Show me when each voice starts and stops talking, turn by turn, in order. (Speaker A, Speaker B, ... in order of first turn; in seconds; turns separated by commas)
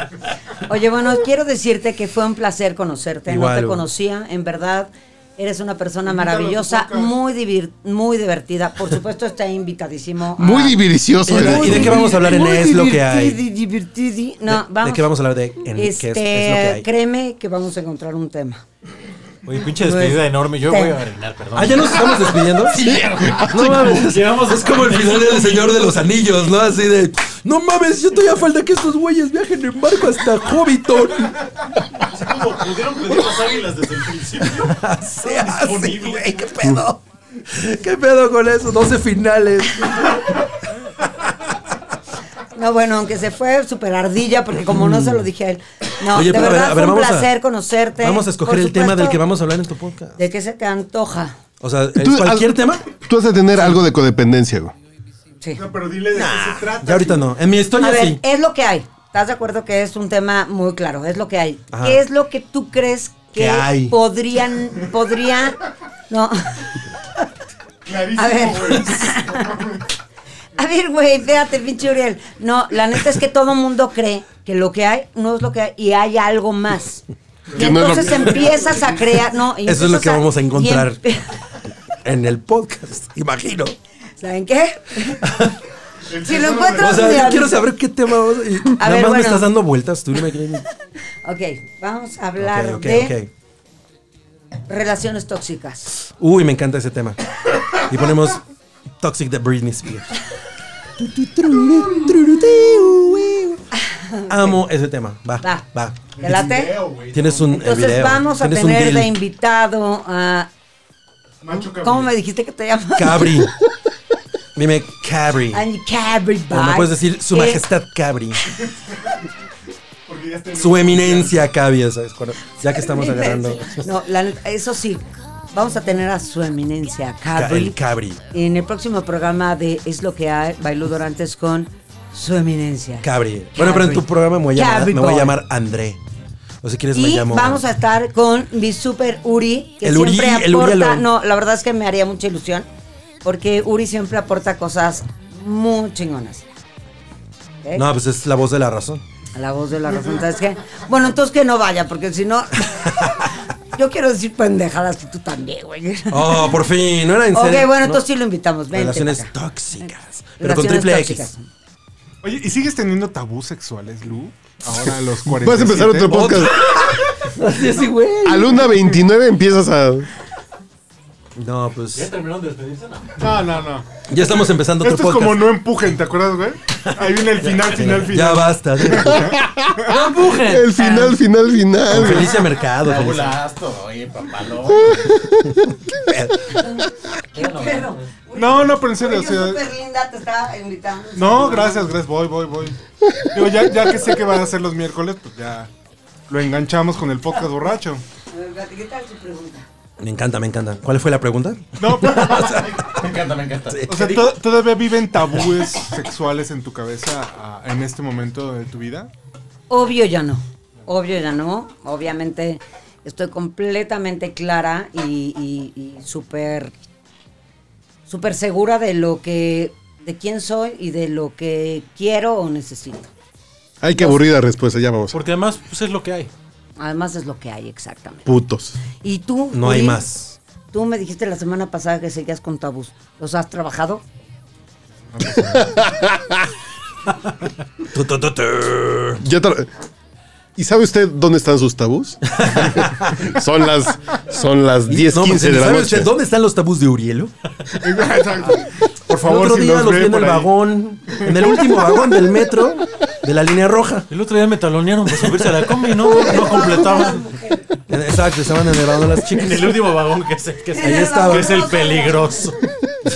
Speaker A: 0.6-15.1, Speaker B: 3.3-3.8, Speaker C: 6.1-7.1, Speaker D: 10.4-12.2, Speaker B: 11.2-13.4, Speaker B: 14.5-16.9, Speaker A: 15.7-18.6, Speaker E: 19.4-26.2, Speaker A: 19.8-20.9, Speaker B: 21.5-31.5, Speaker D: 22.9-23.5, Speaker E: 31.9-36.5, Speaker B: 34.4-40.4, Speaker A: 42.5-49.2, Speaker B: 44.7-45.3, Speaker B: 46.0-47.3, Speaker B: 48.0-50.2, Speaker A: 50.2-51.3, Speaker B: 51.6-52.8, Speaker D: 52.0-54.7, Speaker C: 55.5-57.3, Speaker B: 56.1-58.2, Speaker A: 57.8-67.2, Speaker B: 61.7-62.0, Speaker B: 63.3-64.0, Speaker C: 67.8-69.8, Speaker A: 68.1-69.7, Speaker A: 70.6-81.3, Speaker C: 77.5-78.9, Speaker D: 77.5-78.5, Speaker B: 79.6-81.0, Speaker B: 82.0-83.8, Speaker A: 84.2-85.5, Speaker B: 85.2-85.6, Speaker C: 86.1-87.3, Speaker A: 86.1-87.7, Speaker B: 86.8-90.6, Speaker A: 88.8-89.5, Speaker A: 91.2-93.1, Speaker B: 92.4-93.3, Speaker A: 94.7-96.0, Speaker B: 96.2-98.4, Speaker B: 99.0-100.1, Speaker B: 101.0-103.6, Speaker A: 103.9-104.6, Speaker B: 104.3-106.1, Speaker A: 105.4-105.7, Speaker C: 106.1-108.0, Speaker A: 106.2-106.8, Speaker B: 107.1-109.2, Speaker A: 107.5-110.5, Speaker C: 111.4-112.1, Speaker A: 111.8-113.5, Speaker B: 113.0-113.5, Speaker B: 114.5-115.6, Speaker A: 115.5-117.6, Speaker B: 116.5-118.5, Speaker C: 120.1-121.4, Speaker B: 120.5-123.9, Speaker A: 122.7-135.3, Speaker B: 127.3-128.2, Speaker B: 133.0-136.0, Speaker B: 136.6-137.6, Speaker A: 136.9-142.7, Speaker B: 139.8-141.1, Speaker A: 143.2-146.5, Speaker B: 147.7-149.0, Speaker A: 149.3-156.6, Speaker B: 152.7-153.3, Speaker B: 156.1-158.1, Speaker A: 157.3-161.5, Speaker B: 158.7-161.3, Speaker C: 162.2-166.4, Speaker D: 165.4-166.9, Speaker B: 166.1-168.9, Speaker D: 168.2-170.1, Speaker B: 171.3-172.1, Speaker E: 171.9-173.5, Speaker C: 173.2-173.9, Speaker B: 174.1-175.5, Speaker C: 174.8-179.3, Speaker B: 176.8-179.3, Speaker D: 179.1-182.5, Speaker E: 179.9-181.0, Speaker B: 181.9-183.4, Speaker E: 182.8-185.2, Speaker D: 184.8-185.5, Speaker B: 185.9-186.6, Speaker A: 187.3-191.9, Speaker E: 187.3-188.1, Speaker C: 188.3-189.6, Speaker C: 191.2-192.8, Speaker C: 193.3-195.7, Speaker C: 196.3-198.0, Speaker A: 198.3-199.7, Speaker B: 200.0-203.1, Speaker C: 201.8-202.7, Speaker E: 202.8-204.3, Speaker B: 203.7-204.2, Speaker C: 203.9-209.1, Speaker A: 209.7-216.7, Speaker A: 218.1-223.1, Speaker D: 223.8-225.2, Speaker A: 223.9-224.2, Speaker E: 225.1-226.3, Speaker A: 226.8-228.3, Speaker D: 228.2-228.8, Speaker A: 229.0-230.0, Speaker B: 229.5-230.4, Speaker A: 230.7-234.0, Speaker C: 235.1-235.7, Speaker D: 235.4-236.4, Speaker B: 237.9-239.2, Speaker D: 239.2-239.7, Speaker D: 240.6-246.1, Speaker B: 242.4-243.2, Speaker B: 244.8-247.3, Speaker C: 247.8-250.5, Speaker B: 249.2-254.1, Speaker C: 251.1-251.9, Speaker E: 254.1-257.4, Speaker B: 257.9-259.9, Speaker E: 259.3-262.6, Speaker A: 260.8-262.2, Speaker B: 260.8-261.6